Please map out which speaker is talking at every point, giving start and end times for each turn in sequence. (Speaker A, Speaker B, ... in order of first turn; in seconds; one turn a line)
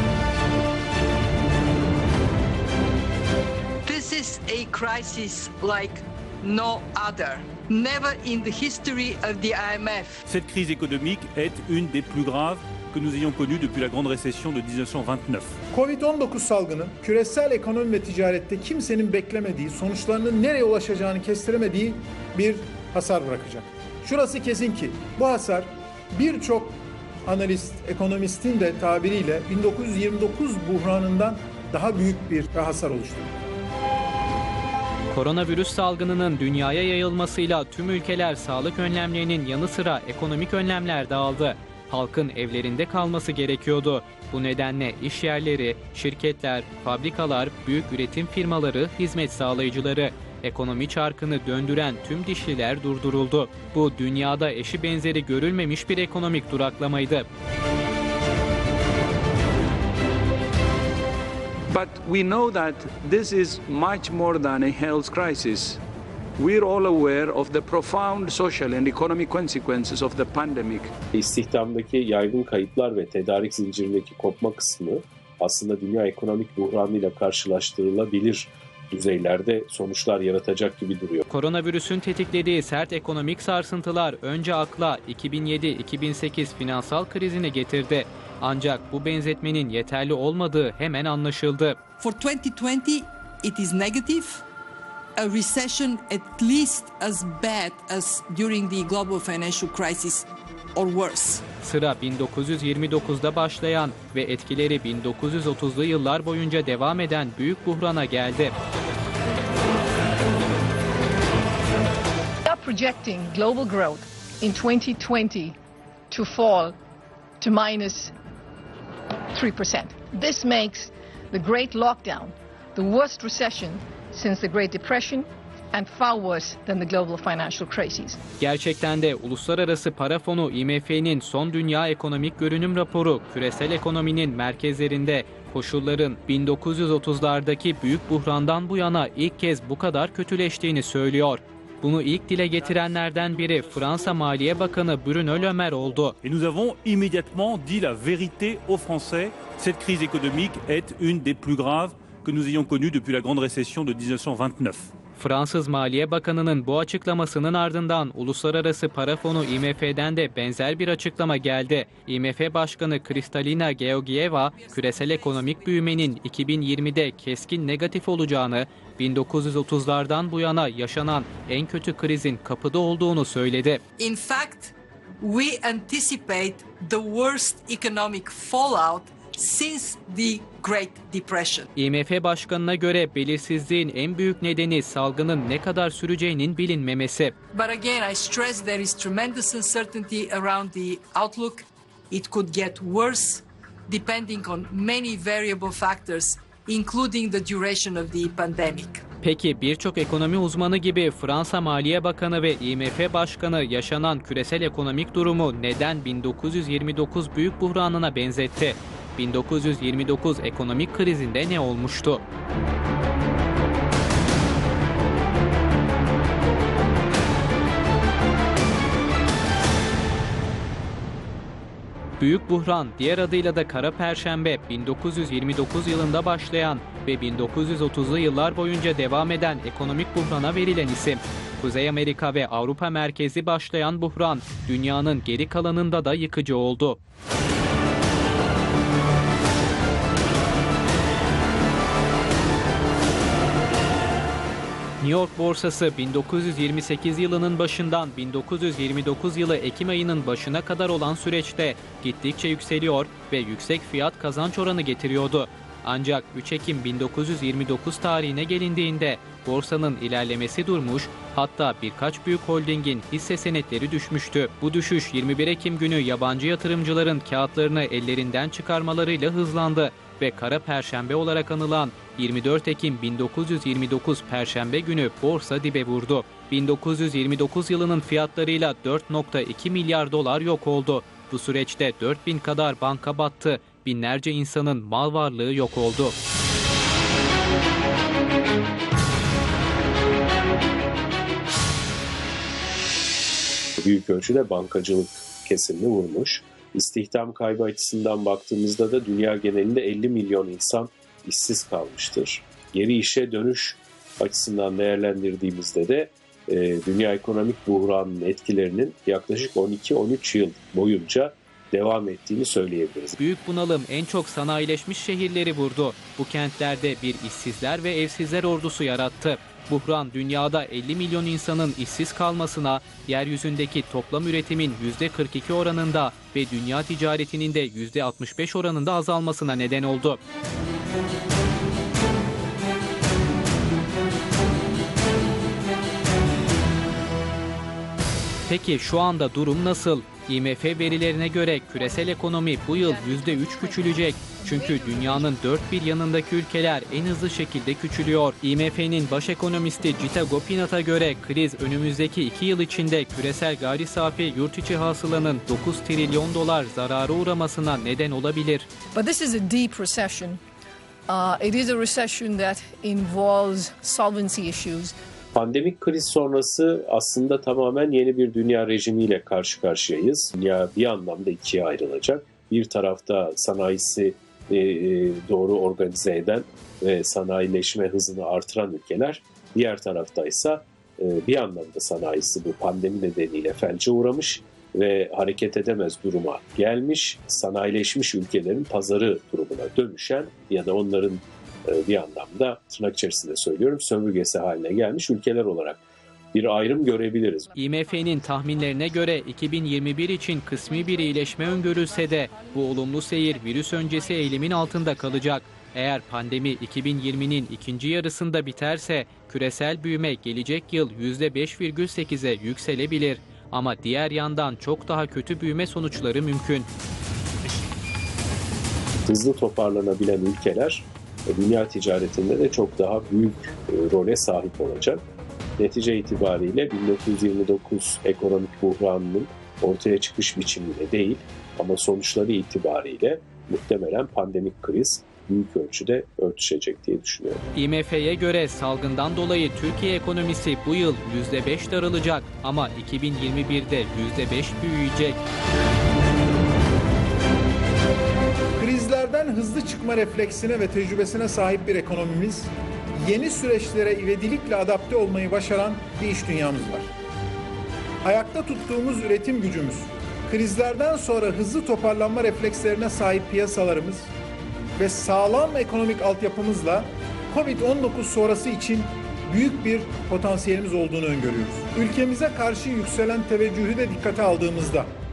Speaker A: 3.9-10.2
Speaker B: 10.2-15.5
Speaker C: 15.7-33.3
Speaker D: 35.1-57.3
Speaker E: 61.7-65.8
Speaker E: 66.4-70.9
Speaker F: 71.1-81.2
Speaker D: 81.3-91.8
Speaker A: 92.0-94.4
Speaker A: 95.2-101.4
Speaker D: 101.6-108.5
Speaker G: 112.4-115.5
Speaker G: 116.1-116.7
Speaker G: 117.4-118.1
Speaker G: 119.3-128.2
Speaker D: 128.4-146.1
Speaker B: 146.2-154.9
Speaker D: 155.2-173.8
Speaker A: 164.4-166.1
Speaker A: 174.0-181.7
Speaker D: 181.8-187.3
Speaker A: 187.5-199.0
Speaker D: 199.2-212.2
Speaker D: 222.2-237.0
Speaker D: 245.0-286.1
Speaker F: 293.8-313.2
Speaker D: 313.2-330.2
Speaker D: 338.5-358.7
Speaker G: 341.7-345.4
Speaker G: 358.9-360.4
Speaker G: 361.1-364.9
Speaker F: 365.3-395.8
Speaker F: 396.3-397.5
Speaker G: 397.4-399.4
Speaker D: 397.5-416.7
Speaker G: 401.9-405.4
Speaker F: 419.1-425.0
Speaker F: 425.6-437.4
Speaker D: 437.5-445.2
Speaker C: 448.6-456.9
Speaker C: 458.0-464.1
Speaker C: 464.8-474.9